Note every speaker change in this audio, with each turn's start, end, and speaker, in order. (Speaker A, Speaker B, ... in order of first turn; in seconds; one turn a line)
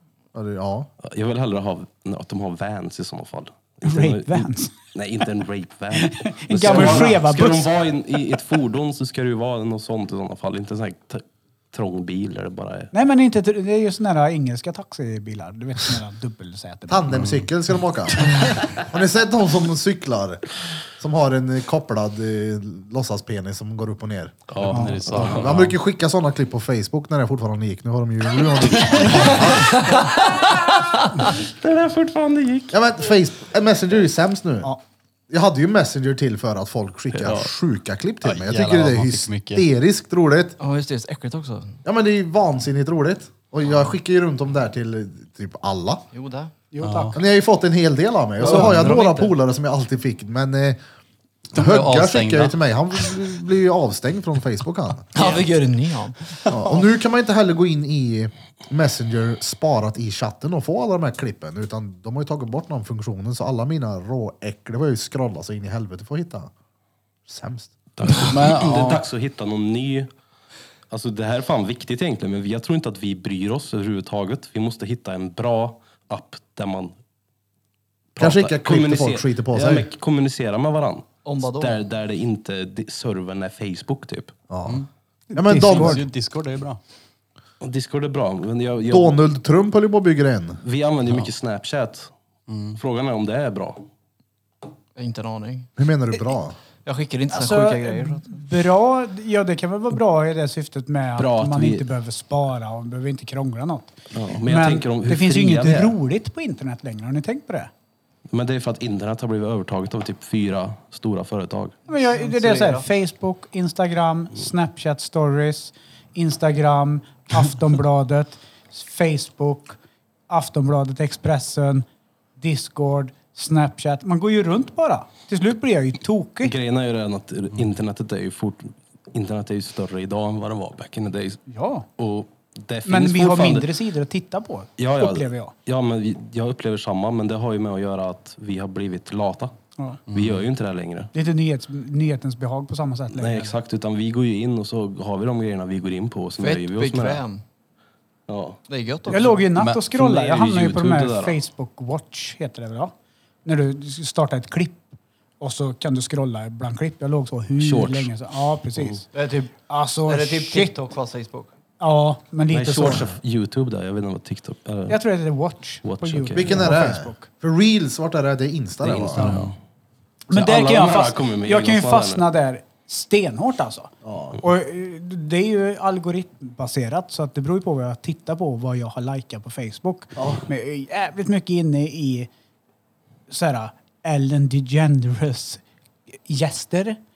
Speaker A: 0.3-0.9
Speaker B: 1.0-12.9
Speaker C: 3.8-4.7
Speaker C: 5.9-7.7
Speaker C: 12.9-17.1
Speaker A: 16.9-20.4
Speaker D: 17.1-17.4
Speaker A: 21.0-24.4
Speaker B: 24.5-25.6
Speaker D: 24.6-25.8
Speaker C: 24.7-25.0
Speaker A: 25.1-29.9
Speaker D: 28.9-29.3
Speaker E: 29.6-31.1
Speaker B: 31.3-32.8
Speaker A: 32.7-34.7
Speaker A: 35.3-40.6
Speaker B: 37.1-37.5
Speaker D: 38.2-39.6
Speaker E: 40.6-41.8
Speaker A: 41.8-46.0
Speaker E: 46.1-46.5
Speaker C: 46.7-47.2
Speaker D: 46.8-47.2
Speaker A: 47.1-50.8
Speaker E: 48.4-49.4
Speaker D: 51.5-52.5
Speaker A: 51.5-55.1
Speaker E: 55.1-56.4
Speaker A: 56.5-66.5
Speaker A: 67.3-67.7
Speaker B: 68.0-70.1
Speaker D: 68.0-69.0
Speaker B: 70.9-76.9
Speaker B: 78.1-84.3
Speaker A: 78.2-79.9
Speaker E: 81.2-81.8
Speaker A: 84.5-84.8
Speaker C: 85.3-86.0
Speaker A: 85.3-86.0
Speaker D: 85.6-86.8
Speaker B: 87.6-89.2
Speaker A: 88.9-90.6
Speaker B: 90.6-92.1
Speaker D: 92.5-92.8
Speaker B: 92.8-93.8
Speaker E: 95.0-95.7
Speaker A: 95.8-96.6
Speaker E: 96.8-98.4
Speaker C: 97.3-107.7
Speaker B: 101.2-101.8
Speaker B: 104.1-106.0
Speaker B: 108.3-111.8
Speaker C: 111.9-119.8
Speaker E: 111.9-112.8
Speaker C: 120.3-121.8
Speaker C: 122.4-126.5
Speaker B: 126.4-131.4
Speaker C: 131.5-131.8
Speaker B: 132.0-133.7
Speaker C: 132.8-135.5
Speaker B: 134.8-139.5
Speaker B: 140.1-141.1
Speaker D: 140.1-140.4
Speaker C: 141.1-143.5
Speaker B: 143.1-147.2
Speaker E: 146.4-147.4
Speaker B: 148.3-148.6
Speaker E: 148.7-149.4
Speaker C: 149.1-152.9
Speaker D: 149.5-149.8
Speaker B: 149.8-151.4
Speaker C: 153.4-159.1
Speaker B: 157.6-158.1
Speaker E: 159.1-159.5
Speaker C: 159.7-160.7
Speaker E: 160.1-161.5
Speaker C: 161.8-163.1
Speaker B: 162.5-165.0
Speaker C: 164.9-167.3
Speaker B: 165.8-166.7
Speaker A: 166.3-169.4
Speaker B: 168.8-169.5
Speaker C: 169.2-169.4
Speaker C: 170.3-182.3
Speaker B: 170.3-172.2
Speaker A: 174.0-174.4
Speaker A: 180.2-180.4
Speaker C: 183.3-185.6
Speaker C: 186.2-187.0